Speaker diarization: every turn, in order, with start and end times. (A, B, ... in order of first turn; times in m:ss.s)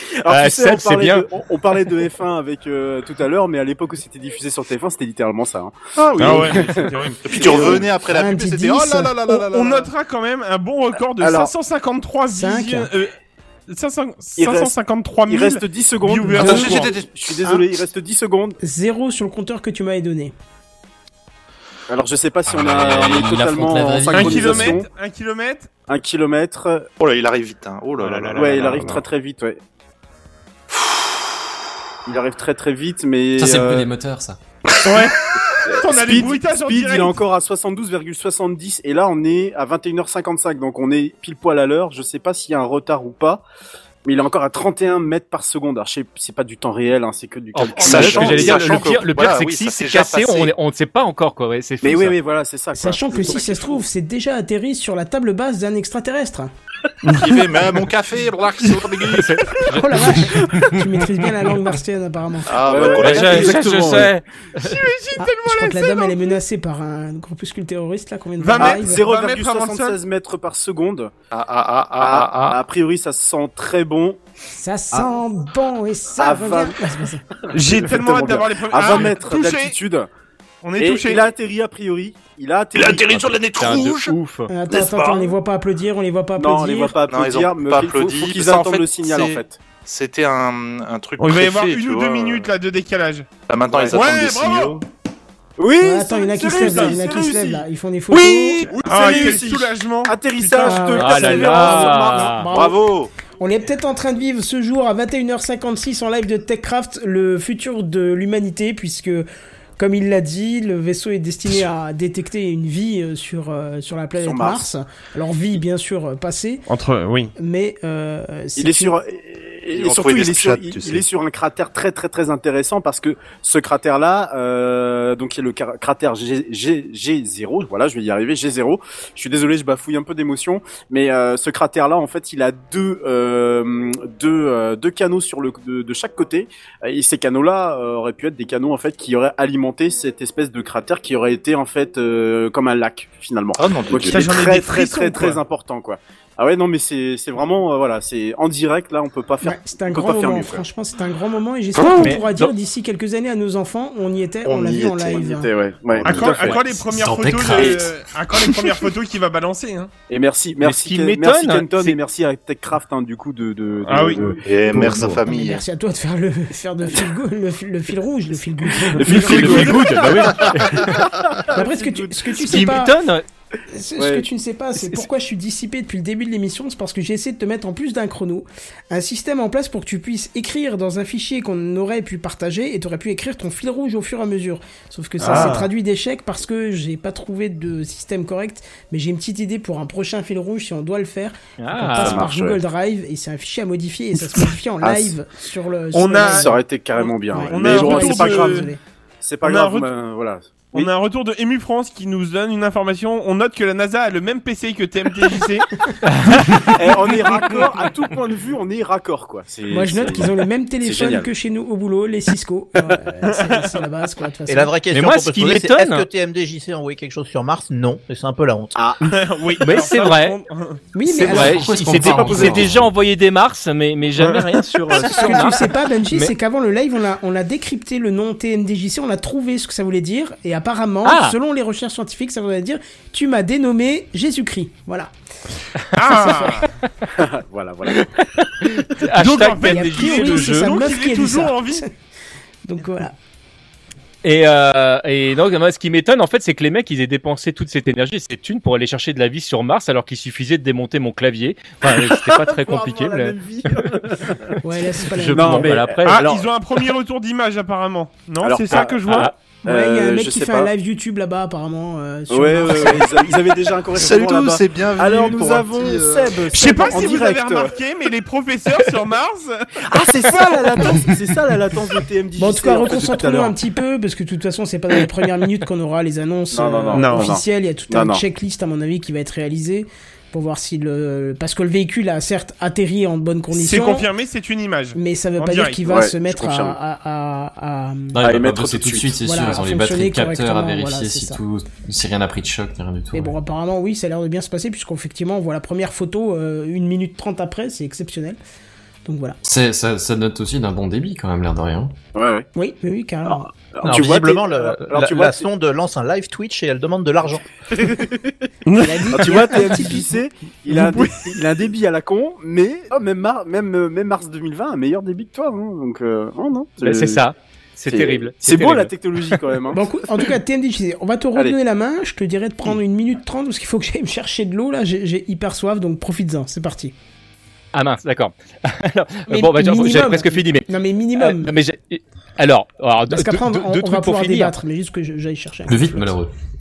0:00.2-0:07.9 A
0:00.3-0:01.3 B
0:06.0-0:06.6 C
0:06.2-0:07.8 D
0:07.2-0:09.9 C
0:08.0-0:09.2 E
0:09.3-0:13.1 D
0:11.2-0:11.5 A
0:12.3-0:12.9 E
0:13.7-0:16.9 D
0:14.4-0:14.7 A
0:15.2-0:18.6 A
0:16.6-0:17.4 C
0:18.6-0:20.3 E
0:21.9-0:24.9 A
0:22.5-0:24.8 F
0:24.1-0:25.7 D
0:25.9-0:26.9 A
0:27.0-0:29.0 C
0:28.0-0:29.0 B
0:28.3-0:29.6 A
0:30.7-0:31.3 C
0:32.0-0:33.9 A
0:33.4-0:34.4 F
0:34.8-0:35.2 D
0:35.6-0:43.4 A
0:35.7-0:37.2 D
0:44.0-0:49.0 A
0:47.5-0:52.2 B
0:47.8-0:50.5 C
0:51.8-0:53.8 A
0:52.7-0:56.5 E
0:57.0-0:57.8 D
0:57.1-0:59.3 C
0:58.6-0:59.6 D
0:59.2-1:00.2 B
0:59.7-1:02.5 E
1:02.5-1:03.8 C
1:02.6-1:04.2 A
1:02.9-1:04.8 B
1:04.6-1:06.3 D
1:05.2-1:09.0 E
1:08.4-1:10.0 D
1:08.6-1:11.1 A
1:11.3-1:12.6 C
1:12.0-1:14.2 A
1:14.5-1:17.2 E
1:16.2-1:16.9 A
1:17.4-1:20.1 A
1:17.5-1:19.8 D
1:17.8-1:19.0 C
1:20.6-1:21.2 D
1:20.8-1:23.5 A
1:22.7-1:24.2 C
1:23.6-1:24.5 B
1:24.5-1:26.9 E
1:24.7-1:25.3 C
1:26.4-1:29.6 A
1:27.1-1:32.5 C
1:31.2-1:33.3 D
1:33.5-1:34.8 C
1:33.7-1:34.1 A
1:33.9-1:34.8 D
1:35.6-1:37.6 A
1:35.8-1:38.7 E
1:36.4-1:37.2 D
1:38.1-1:41.4 D
1:38.8-1:42.5 A
1:40.6-1:49.2 E
1:41.0-1:42.5 B
1:42.4-1:43.1 C
1:49.8-1:56.6 E
1:54.2-1:54.7 A
1:56.7-1:57.3 D
1:57.4-1:59.0 E
1:58.6-2:30.4 A
1:59.7-2:01.0 C
2:23.6-2:24.5 C
2:24.1-2:25.4 D
2:29.4-2:35.5 E
2:30.0-2:30.6 C
2:31.8-2:32.1 C
2:32.0-2:32.5 B
2:34.4-2:36.6 C
2:35.3-2:36.7 A
2:36.0-2:39.9 D
2:36.8-2:37.9 F
2:40.1-2:45.2 A
2:40.6-2:42.0 B
2:43.8-2:44.9 D
2:44.4-2:45.6 C
2:44.7-2:50.0 E
2:48.8-2:52.7 A
2:49.1-2:51.1 B
2:49.1-2:50.1 D
2:51.5-2:52.9 E
2:52.5-2:53.2 B
2:53.7-3:16.5 E
2:54.0-2:54.2 A
3:05.2-3:05.7 D
3:11.6-3:12.3 B
3:12.0-3:12.6 A
3:14.8-3:15.1 A
3:15.9-3:18.7 D
3:16.2-3:18.6 A
3:17.3-3:18.8 E
3:19.2-3:20.9 A
3:19.4-3:19.9 D
3:20.7-3:27.7 D
3:26.3-3:26.8 B
3:26.8-3:31.3 A
3:29.7-3:34.7 E
3:33.3-3:33.6 D
3:34.5-3:38.8 G
3:34.9-3:36.0 B
3:38.7-3:39.1 A
3:39.0-3:40.8 D
3:39.6-3:40.4 B
3:40.9-3:41.7 E
3:41.1-3:46.3 B
3:41.3-3:42.9 F
3:44.2-3:44.5 D
3:45.0-3:55.1 E
3:51.0-3:51.4 B
3:56.0-3:56.6 D
3:56.0-3:56.6 B
3:57.1-3:58.0 A
3:57.9-4:00.9 B
3:59.2-4:01.8 D
3:59.6-4:01.9 E
4:02.6-4:03.1 E
4:04.2-4:13.9 B
4:11.8-4:14.5 A
4:14.6-4:15.7 E
4:15.1-4:16.3 B
4:15.3-4:16.5 A
4:16.0-4:19.3 D
4:18.4-4:20.7 A
4:18.7-4:19.3 B
4:19.7-4:23.3 E
4:22.3-4:27.8 A
4:23.9-4:26.3 C
4:26.5-4:29.7 D
4:29.9-4:33.5 A
4:30.2-4:30.5 D
4:32.4-4:44.1 E
4:36.5-4:38.2 A
4:36.9-4:37.3 D
4:43.5-4:45.9 D
4:44.9-4:48.2 E
4:45.9-4:46.8 A
4:48.1-4:53.4 F
4:48.2-4:49.6 A
4:49.2-4:51.4 E
4:53.1-4:58.4 E
4:59.0-4:59.4 E
4:59.4-5:01.9 F
5:02.1-5:02.5 A
5:02.6-5:03.5 E
5:03.3-5:05.4 A
5:03.8-5:07.4 G
5:07.7-5:08.3 A
5:08.6-5:09.9 D
5:08.8-5:10.1 E
5:09.1-5:17.2 A
5:10.7-5:11.2 D
5:16.8-5:19.4 B
5:17.9-5:19.8 A
5:19.7-5:26.9 E
5:27.7-5:34.5 B
5:29.3-5:31.5 E
5:33.1-5:36.2 E
5:35.6-5:36.3 F